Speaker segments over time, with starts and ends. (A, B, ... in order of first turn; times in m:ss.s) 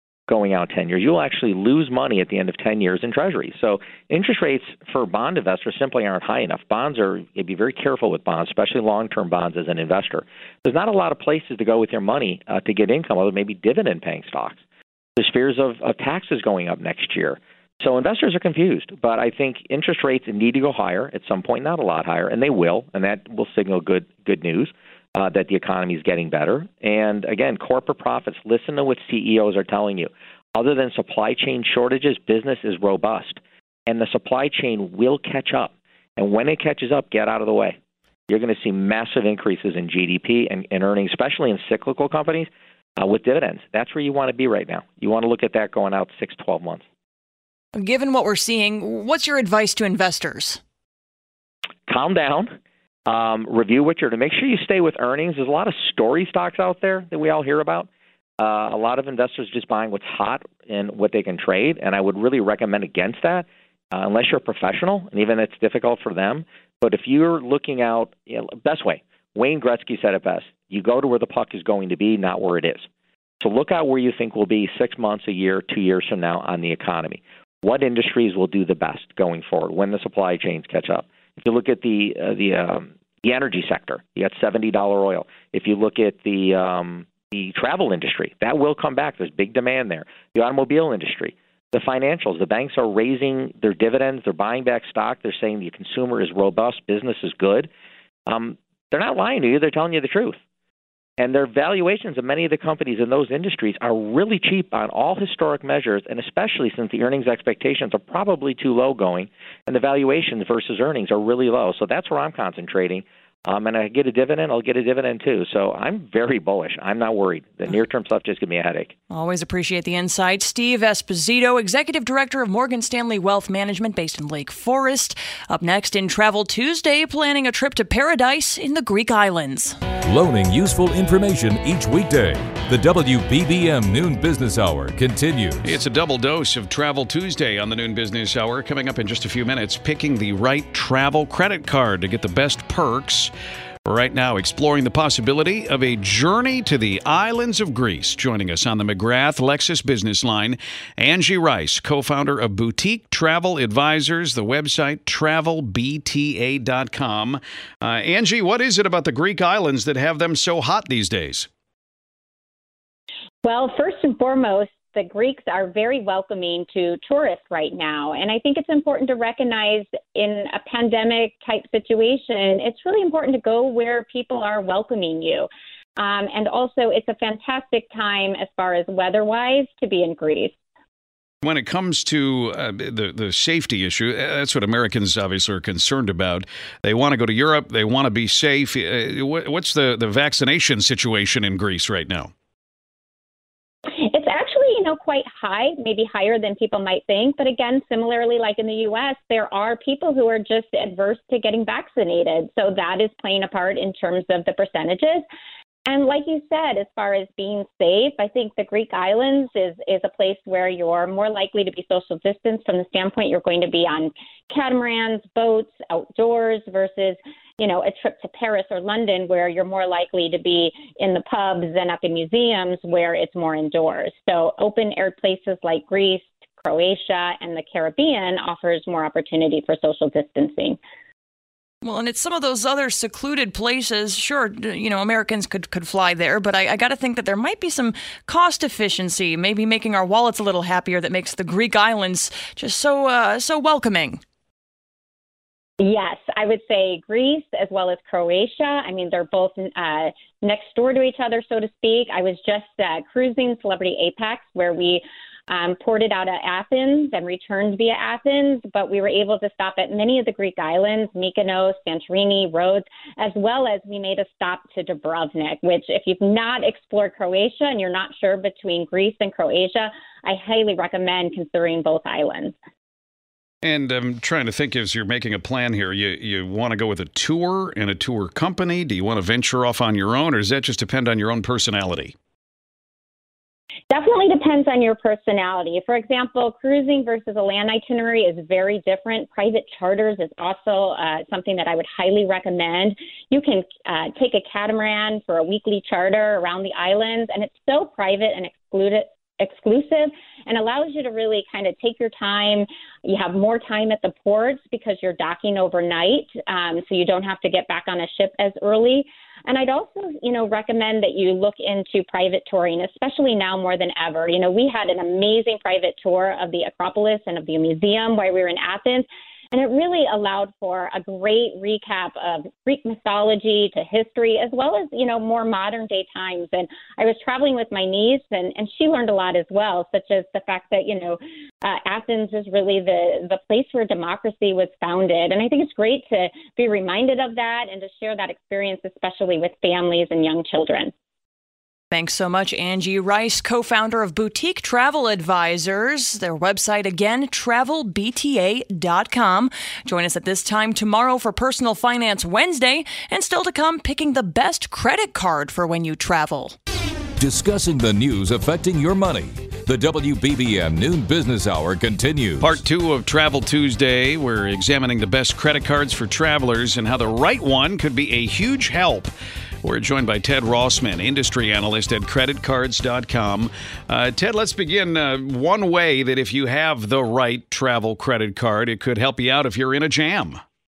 0:00.3-0:14.6 A
0:15.2-0:37.8 A
0:38.3-0:46.8 A
0:47.8-0:50.6 B
0:51.9-0:52.6 A
0:53.1-0:57.9 A
0:58.4-1:12.9 A
1:13.4-1:37.7 A
1:38.3-1:40.4 A
1:41.2-1:59.0 A
1:59.1-2:09.8 B
2:10.0-2:15.7 C
2:15.6-2:23.3 D
2:23.8-2:41.5 D
2:43.4-3:00.6 E
3:01.4-3:12.3 D
3:13.9-3:25.2 E
3:25.9-3:50.8 E
3:51.8-4:04.2 B
4:05.8-4:32.6 E
4:33.6-4:42.1 D
4:43.9-5:40.9 E
5:41.9-5:56.6 B
5:57.2-6:02.6 C
6:02.4-6:09.1 D
6:09.6-6:20.4 D